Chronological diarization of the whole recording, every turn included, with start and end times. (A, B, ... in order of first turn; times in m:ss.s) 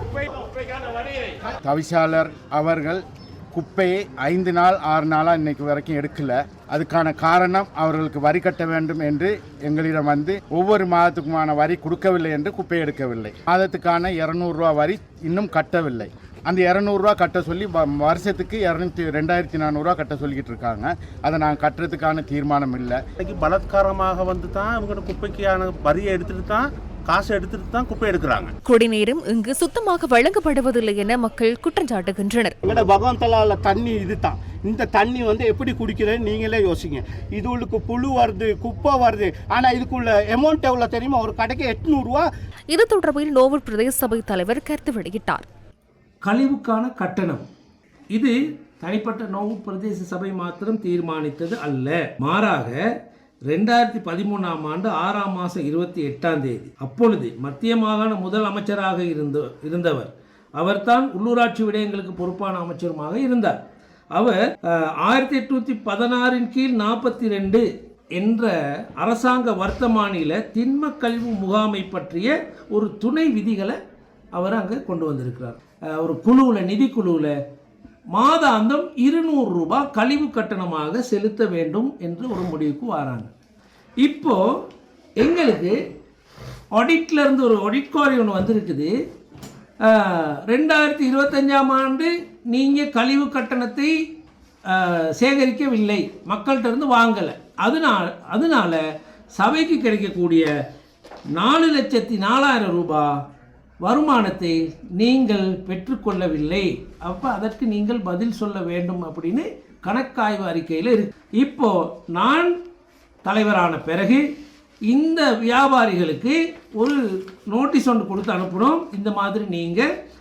0:01.4-0:03.0 A
0:03.5-0:23.0 A
0:23.2-0:28.5 B
0:28.6-0:32.6 C
0:32.7-0:42.3 D
0:42.7-0:45.4 C
0:46.2-0:47.4 E
0:48.1-0:52.8 E
0:53.5-1:03.6 E
1:04.1-1:07.7 E
1:08.2-1:13.8 E
1:14.3-1:17.3 E
1:18.1-1:23.3 E
1:24.0-1:24.4 E
1:25.2-1:25.7 E
1:26.7-1:28.9 E
1:29.8-1:33.9 E
1:34.7-1:38.8 E
1:39.4-1:40.5 E
1:41.4-1:43.1 E
1:43.8-1:52.6 E
1:53.2-1:54.2 E
1:54.9-1:59.9 E